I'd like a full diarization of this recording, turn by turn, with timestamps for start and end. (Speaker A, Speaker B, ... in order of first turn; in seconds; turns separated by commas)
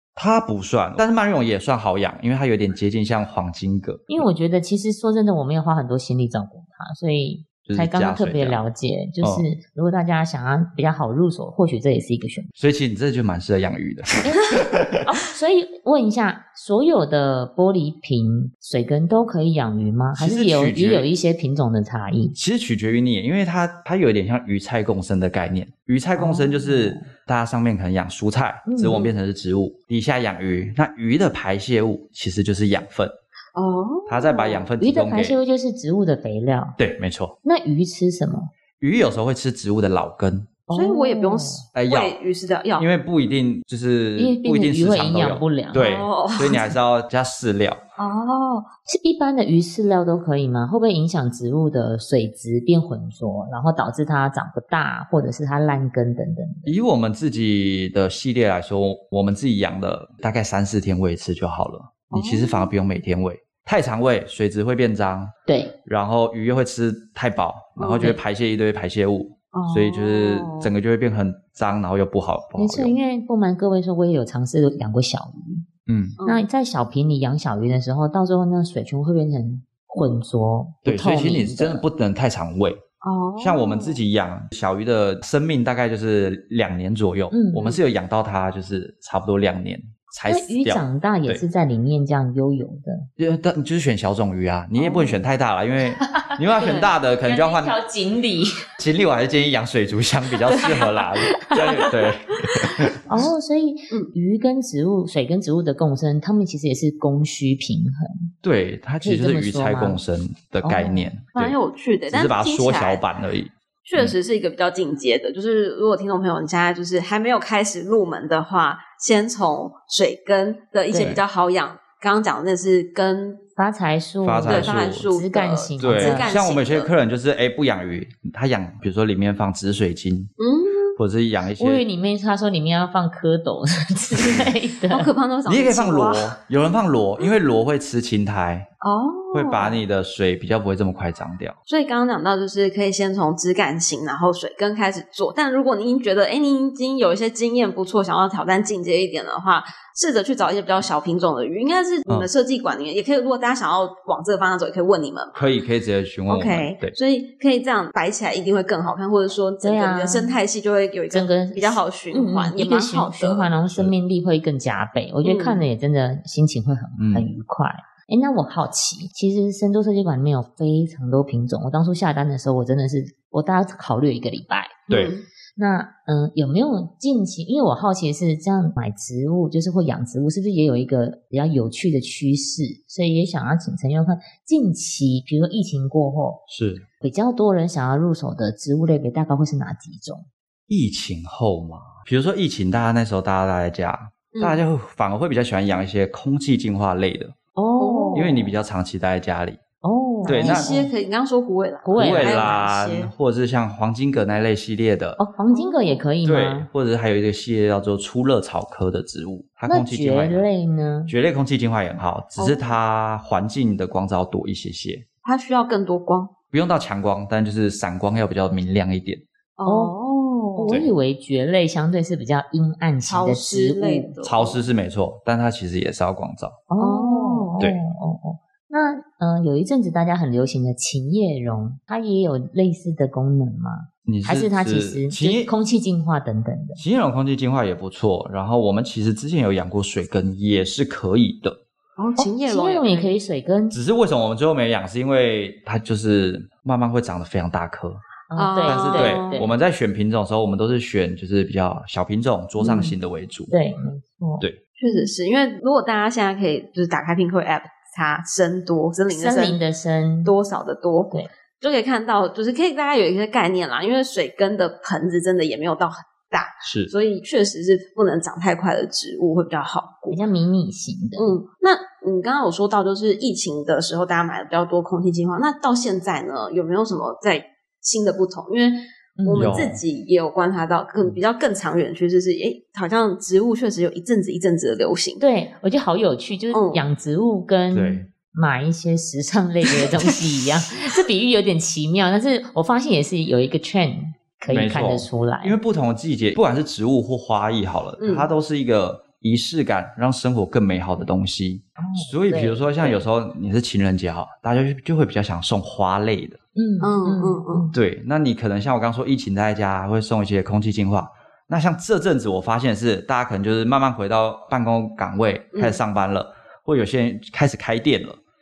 Speaker A: 0.1-4.2, Speaker B: 4.1-12.5, Speaker A: 7.6-8.6, Speaker A: 12.6-15.1, Speaker B: 14.2-14.5, Speaker B: 15.0-22.4, Speaker A: 20.1-21.1, Speaker A: 22.3-33.1, Speaker B: 26.1-27.0, Speaker B: 28.6-29.1, Speaker C: 33.5-34.6, Speaker A: 34.1-35.4, Speaker B: 34.8-36.8, Speaker A: 36.8-37.3, Speaker B: 37.4-38.5, Speaker A: 38.8-40.5, Speaker B: 40.7-41.6, Speaker C: 40.7-42.9, Speaker A: 41.7-42.1, Speaker A: 42.8-47.8, Speaker B: 44.2-45.9, Speaker C: 45.7-46.6, Speaker C: 48.0-48.7, Speaker B: 48.9-56.7, Speaker A: 56.6-65.3, Speaker C: 62.1-62.7, Speaker B: 65.5-65.8, Speaker A: 65.8-72.9, Speaker C: 67.8-68.1, Speaker C: 69.5-70.7, Speaker B: 72.5-75.7, Speaker A: 75.9-76.2, Speaker C: 76.2-76.4, Speaker B: 76.2-81.8, Speaker A: 80.8-82.8, Speaker C: 83.0-84.0, Speaker A: 83.4-91.4, Speaker B: 87.3-87.7, Speaker B: 90.2-93.1, Speaker A: 93.2-97.8, Speaker B: 96.0-98.7, Speaker A: 98.8-103.0, Speaker B: 100.5-100.8, Speaker B: 101.4-101.9, Speaker B: 102.9-108.3, Speaker A: 108.4-111.6, Speaker B: 109.0-110.0, Speaker B: 110.6-111.0, Speaker C: 111.3-113.0, Speaker A: 112.1-114.1, Speaker C: 113.8-123.4, Speaker A: 120.9-121.2, Speaker B: 123.6-126.3, Speaker A: 124.2-125.1, Speaker C: 124.5-126.9, Speaker A: 125.8-130.3, Speaker C: 130.4-130.9, Speaker A: 130.9-131.8, Speaker B: 131.6-135.1, Speaker C: 134.9-136.3, Speaker A: 135.5-138.7, Speaker C: 138.8-139.8, Speaker A: 139.3-141.6, Speaker C: 141.7-155.4, Speaker A: 155.3-156.9, Speaker C: 156.3-163.5, Speaker B: 159.6-160.4, Speaker B: 161.1-175.0, Speaker C: 165.2-165.6, Speaker A: 167.0-167.3, Speaker C: 174.9-175.2, Speaker B: 175.6-186.4, Speaker A: 186.5-186.8, Speaker B: 187.0-190.2, Speaker A: 190.7-197.3, Speaker C: 194.3-194.6, Speaker B: 197.6-198.5, Speaker C: 197.8-198.5, Speaker A: 198.1-199.6, Speaker B: 199.8-200.9, Speaker C: 200.2-203.1, Speaker A: 200.2-200.7, Speaker B: 201.8-202.6, Speaker A: 201.9-205.2, Speaker B: 205.2-206.7, Speaker C: 205.5-206.0, Speaker A: 206.2-210.5, Speaker B: 209.7-211.1, Speaker A: 211.1-215.1, Speaker C: 212.4-212.8, Speaker C: 215.2-216.3, Speaker A: 216.5-219.2, Speaker C: 219.6-220.8, Speaker B: 219.7-219.9, Speaker B: 220.5-224.1, Speaker A: 220.7-220.9, Speaker C: 223.1-224.6, Speaker A: 224.2-226.6, Speaker B: 226.7-236.8, Speaker C: 226.8-227.6, Speaker A: 234.1-235.5, Speaker A: 236.8-241.6, Speaker C: 242.0-243.1, Speaker B: 242.2-243.8, Speaker A: 243.7-248.0, Speaker B: 248.3-249.5, Speaker C: 248.3-249.4, Speaker A: 248.7-253.5, Speaker B: 252.6-252.9, Speaker B: 253.5-255.1, Speaker C: 254.8-259.6, Speaker B: 259.1-260.3, Speaker C: 260.2-270.2, Speaker A: 266.6-266.9, Speaker B: 270.1-271.4, Speaker C: 271.1-285.2, Speaker B: 279.2-279.7, Speaker A: 279.4-279.8, Speaker B: 285.2-295.6, Speaker C: 286.5-286.8, Speaker A: 287.7-288.1, Speaker A: 294.5-306.4, Speaker C: 298.0-298.3, Speaker B: 301.8-303.0, Speaker B: 306.5-307.7, Speaker C: 306.8-307.7, Speaker A: 307.7-318.2